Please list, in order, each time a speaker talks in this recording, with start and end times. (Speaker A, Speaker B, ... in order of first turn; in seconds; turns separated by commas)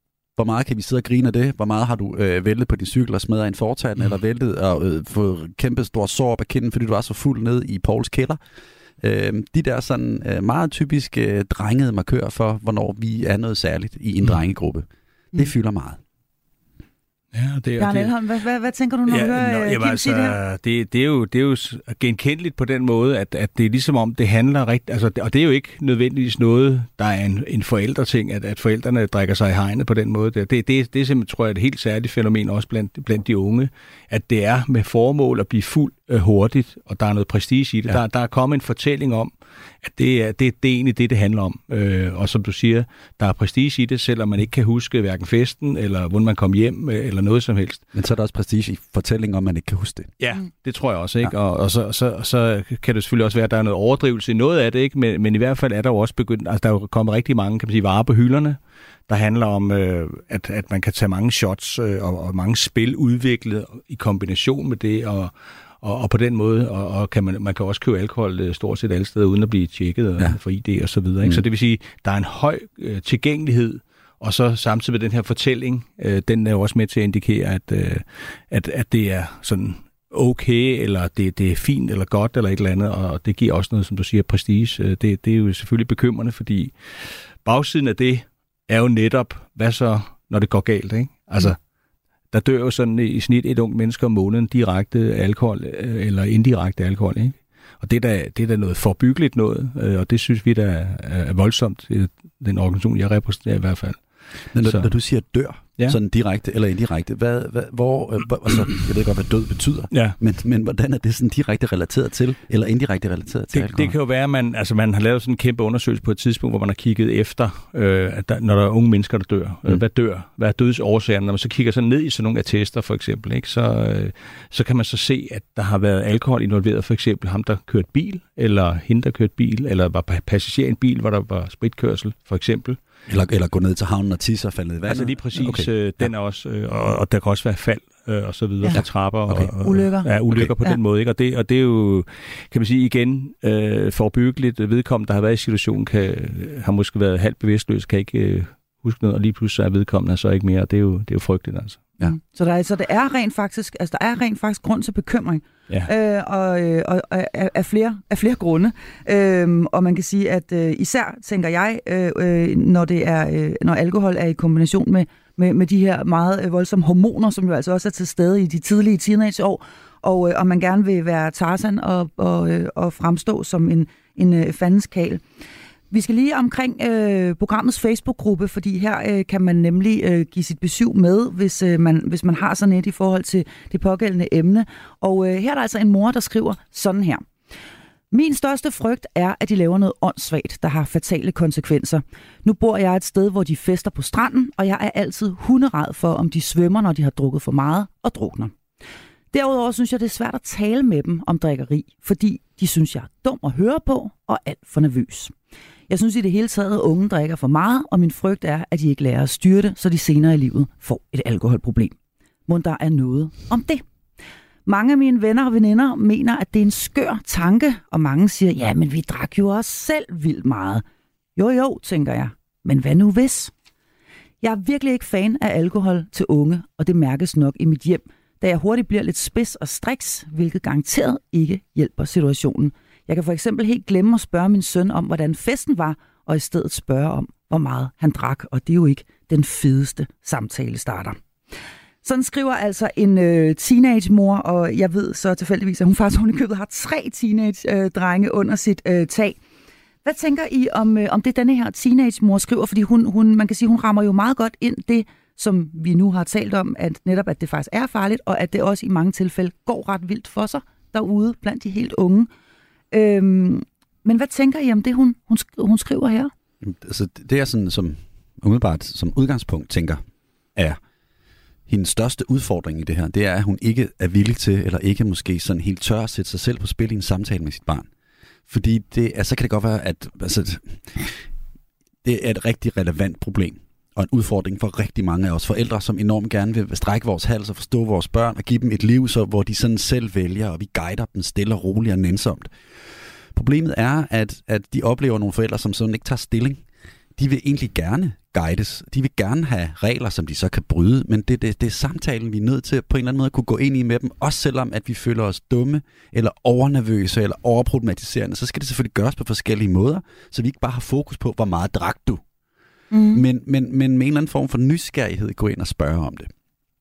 Speaker A: 0.4-8.4, Speaker A: 9.0-16.0, Speaker B: 17.3-18.1, Speaker C: 17.8-20.4, Speaker B: 19.1-39.3, Speaker B: 39.8-47.8, Speaker A: 47.9-50.1, Speaker B: 50.2-58.6, Speaker B: 59.1-91.6, Speaker B: 92.3-104.0, Speaker A: 104.5-113.9, Speaker B: 104.6-104.9, Speaker B: 109.9-110.2, Speaker B: 113.5-132.8, Speaker A: 133.1-136.1, Speaker B: 134.9-151.9, Speaker A: 138.7-139.5, Speaker C: 139.6-140.1, Speaker C: 152.0-175.2, Speaker C: 175.9-187.3, Speaker C: 188.1-198.5, Speaker C: 199.3-205.3, Speaker C: 205.9-211.9, Speaker C: 212.5-213.8, Speaker C: 214.7-220.8, Speaker C: 221.4-223.5, Speaker C: 224.4-241.2, Speaker C: 242.0-249.4, Speaker C: 250.1-262.3, Speaker C: 262.9-266.3, Speaker A: 266.6-270.0, Speaker A: 271.7-277.9, Speaker A: 278.5-281.2, Speaker A: 282.0-292.5, Speaker A: 293.4-296.6, Speaker A: 297.2-312.2, Speaker C: 312.9-313.2, Speaker A: 313.1-316.3